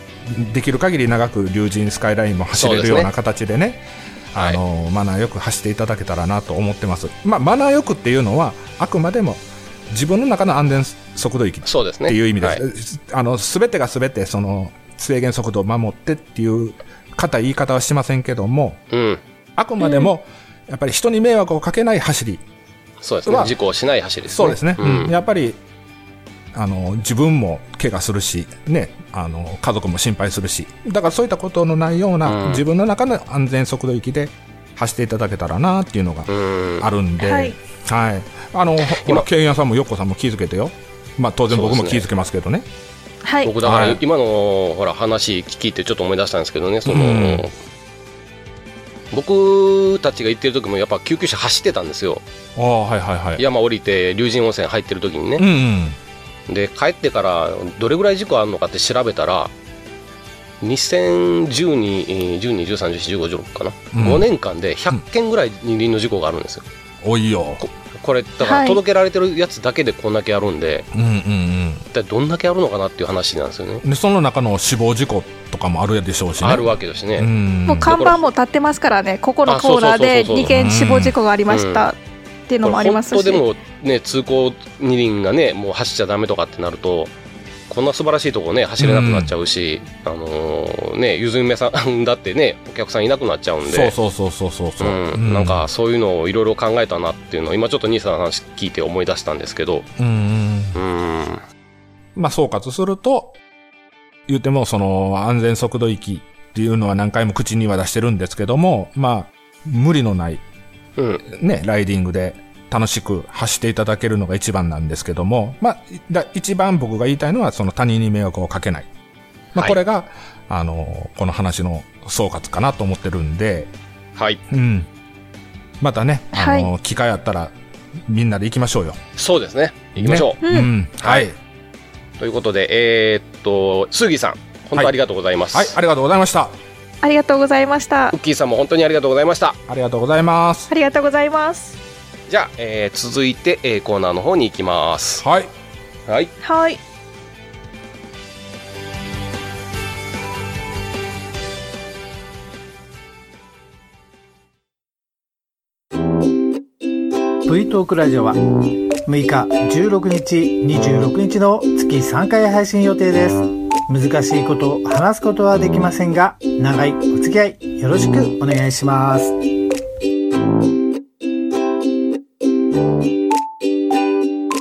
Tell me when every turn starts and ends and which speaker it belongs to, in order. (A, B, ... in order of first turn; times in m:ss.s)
0:00.2-0:18.8 A
0:02.5-0:03.1 B
0:04.3-0:04.6 B
0:11.6-0:12.6 B
0:18.9-0:19.2 B
0:19.6-0:22.4 A
0:19.8-0:20.1 C
0:23.0-0:25.1 B
0:23.2-0:23.5 A
0:24.3-0:25.6 A
0:26.5-0:42.7 A
0:32.2-0:32.6 B
0:36.3-0:36.9 B
0:37.2-0:37.6 C
0:38.8-0:39.3 B
0:41.5-0:42.0 B
0:43.2-0:43.5 C
0:43.4-0:47.5 B
0:43.6-0:44.0 A
0:46.8-0:47.5 A
0:49.1-0:52.2 B
0:52.6-0:53.4 A
0:53.4-0:55.4 B
0:55.4-0:56.0 A
0:56.5-0:59.5 B
1:00.6-1:06.6 B
1:03.9-1:04.3 A
1:07.0-1:07.6 A
1:07.6-1:10.9 B
1:08.4-1:08.8 C
1:10.9-1:11.8 A
1:11.9-1:13.8 B
1:13.8-1:18.0 A
1:16.4-1:17.3 B
1:17.6-1:22.0 C
1:17.8-1:18.2 B
1:19.5-1:20.6 B
1:20.4-1:21.2 A
1:21.5-1:21.9 B
1:22.5-1:23.4 C
1:22.6-1:27.1 B
1:27.7-1:33.9 B
1:28.8-1:29.3 A
1:33.6-1:35.7 A
1:34.8-1:39.9 B
1:40.0-1:40.8 A
1:40.7-1:41.4 B
1:42.2-1:43.3 A
1:44.3-1:50.4 A
1:51.0-1:51.2 B
1:51.2-1:58.9 A
1:59.6-2:03.7 A
2:04.2-2:04.4 B
2:04.5-2:04.9 A
2:05.8-2:07.5 A
2:06.3-2:06.7 C
2:08.1-2:09.0 A
2:09.2-2:10.4 B
2:10.0-2:11.3 A
2:10.4-2:10.7 C
2:11.0-2:11.3 B
2:12.2-2:15.7 B
2:15.5-2:16.5 A
2:17.0-2:18.1 C
2:18.1-2:19.6 B
2:19.7-2:20.7 A
2:20.7-2:21.8 C
2:22.3-2:25.2 B
2:25.2-2:25.5 A
2:26.1-2:26.3 B
2:26.4-2:26.8 C
2:37.4-2:49.3 D